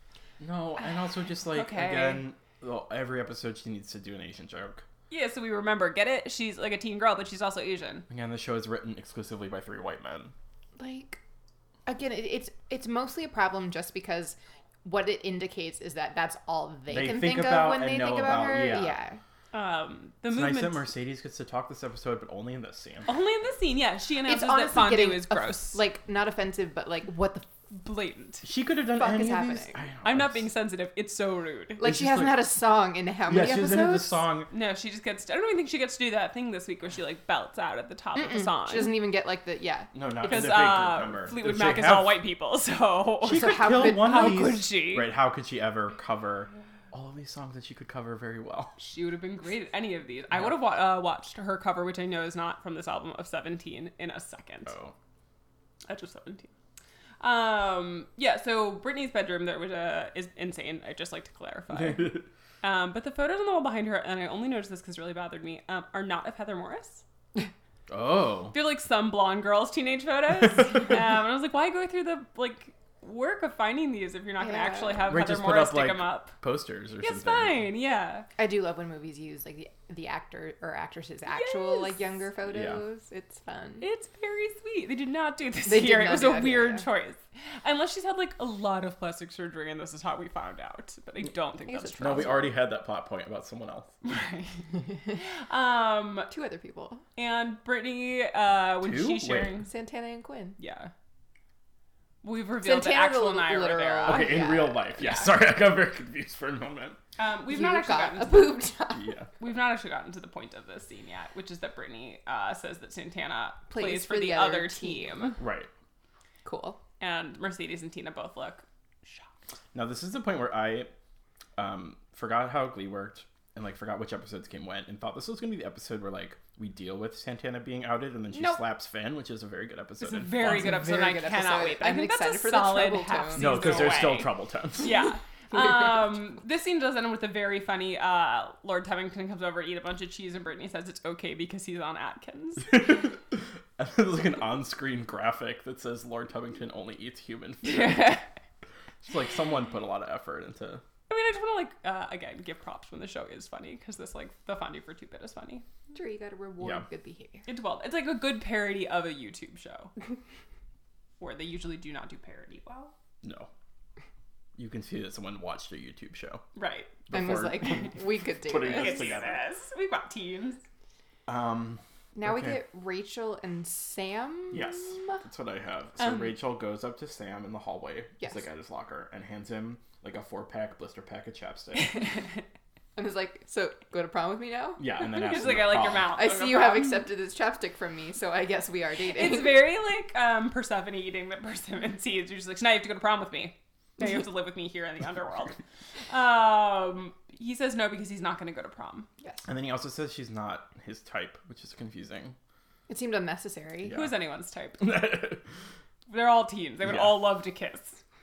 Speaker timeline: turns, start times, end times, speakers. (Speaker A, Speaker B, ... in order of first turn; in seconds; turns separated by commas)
Speaker A: 0.4-4.8, Speaker B: 1.5-2.2, Speaker B: 5.1-8.1, Speaker A: 8.1-10.3, Speaker C: 10.8-11.2, Speaker C: 11.9-19.2, Speaker A: 16.9-19.0, Speaker B: 19.5-20.9, Speaker A: 20.3-23.1, Speaker B: 23.1-25.8, Speaker C: 24.3-27.5, Speaker B: 27.7-28.4, Speaker A: 28.4-30.4, Speaker C: 29.0-29.8, Speaker B: 30.0-31.8, Speaker C: 31.8-34.2, Speaker A: 31.8-32.5, Speaker A: 33.3-34.5, Speaker B: 34.5-39.0, Speaker C: 38.1-39.9, Speaker A: 39.9-42.2, Speaker B: 40.2-45.1, Speaker A: 43.2-48.7, Speaker C: 43.3-44.3, Speaker B: 48.8-54.8, Speaker A: 54.7-54.9, Speaker B: 55.9-56.5, Speaker B: 57.2-67.0, Speaker A: 61.7-62.2, Speaker A: 67.9-68.5, Speaker B: 68.5-76.4, Speaker C: 74.4-75.1, Speaker A: 75.1-77.6, Speaker B: 77.0-78.3, Speaker C: 78.4-83.9, Speaker B: 81.3-82.1, Speaker A: 82.5-82.8, Speaker B: 83.8-92.4, Speaker C: 85.7-86.9, Speaker C: 91.7-92.5, Speaker A: 92.0-94.0, Speaker B: 94.0-94.6, Speaker B: 95.1-96.3, Speaker C: 96.3-97.0, Speaker B: 97.2-99.7, Speaker A: 98.8-99.6, Speaker C: 99.7-100.6, Speaker B: 100.6-100.9, Speaker B: 102.2-105.3, Speaker C: 102.6-104.8, Speaker A: 104.0-107.0, Speaker B: 107.2-108.6, Speaker C: 107.5-109.1, Speaker A: 108.9-109.3, Speaker B: 109.4-115.4, Speaker C: 113.7-115.3, Speaker A: 115.4-115.7, Speaker C: 116.5-116.8, Speaker B: 117.0-119.3, Speaker A: 119.7-120.9, Speaker A: 121.6-130.9, Speaker B: 128.3-128.6, Speaker B: 130.0-142.8, Speaker C: 130.4-134.1, Speaker A: 133.4-135.0, Speaker A: 142.7-148.2, Speaker B: 147.6-148.3, Speaker A: 149.0-150.8, Speaker B: 151.1-155.7, Speaker C: 155.9-157.5, Speaker B: 157.5-159.9, Speaker B: 161.2-162.9, Speaker A: 163.2-163.5, Speaker A: 164.6-166.4, Speaker B: 166.6-166.9, Speaker A: 167.1-169.4, Speaker C: 167.1-169.2, Speaker B: 168.6-170.6, Speaker A: 171.3-172.6, Speaker C: 172.2-175.2, Speaker A: 174.5-182.2, Speaker B: 176.0-176.3, Speaker C: 178.2-178.5, Speaker B: 181.8-182.4, Speaker C: 183.0-189.7, Speaker A: 184.8-186.2, Speaker B: 185.0-187.1, Speaker B: 189.1-199.1, Speaker A: 199.5-202.4, Speaker C: 202.9-204.0, Speaker A: 203.8-204.1, Speaker B: 203.9-205.2, Speaker A: 204.8-205.5, Speaker B: 206.1-208.0, Speaker A: 206.8-207.3